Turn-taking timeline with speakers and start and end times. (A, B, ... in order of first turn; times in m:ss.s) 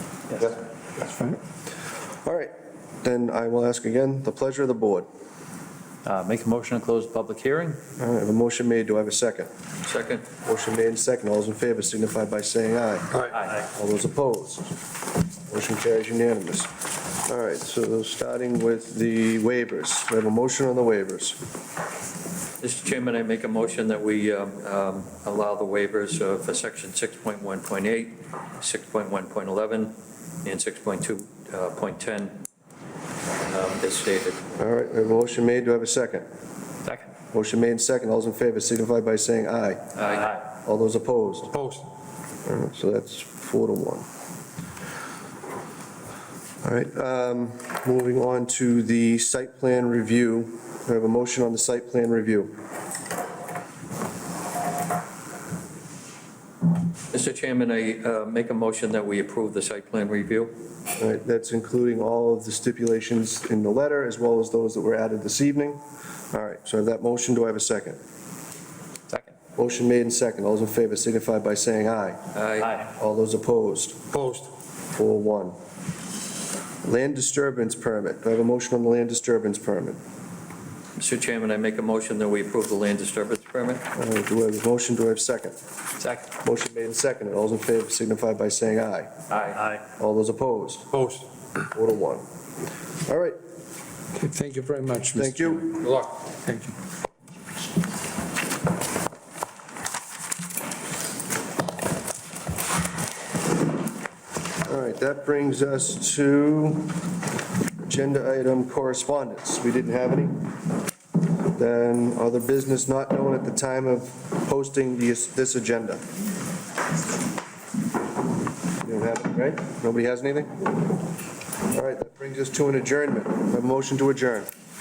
0:02.2-0:05.1 A
0:06.0-0:07.8 B
0:08.0-0:09.5 A
0:09.8-0:10.2 B
0:10.4-0:14.7 A
0:15.4-0:16.7 A
0:17.2-0:21.4 A
0:22.6-0:32.4 B
0:33.5-0:34.4 B
0:34.6-0:36.3 A
0:37.3-0:41.6 A
0:40.0-0:40.4 B
0:42.4-0:44.0 A
0:46.6-0:52.5 A
0:57.1-1:00.5 B
1:01.0-1:05.8 A
1:06.3-1:08.0 A
1:09.6-1:12.2 A
1:12.3-1:12.8 B
1:12.8-1:14.0 A
1:14.2-1:14.4 C
1:14.9-1:15.6 A
1:16.8-1:20.0 A
1:21.0-1:23.8 B
1:23.9-1:25.6 A
1:26.4-1:29.2 A
1:29.3-1:29.8 B
1:30.0-1:30.9 A
1:31.7-1:32.2 A
1:33.0-1:33.4 A
1:34.1-1:36.7 C
1:35.2-1:35.7 A
1:44.6-1:47.0 A
1:47.8-1:50.5 A
1:51.5-1:56.0 A
1:58.8-2:00.7 A
2:01.7-2:04.5 A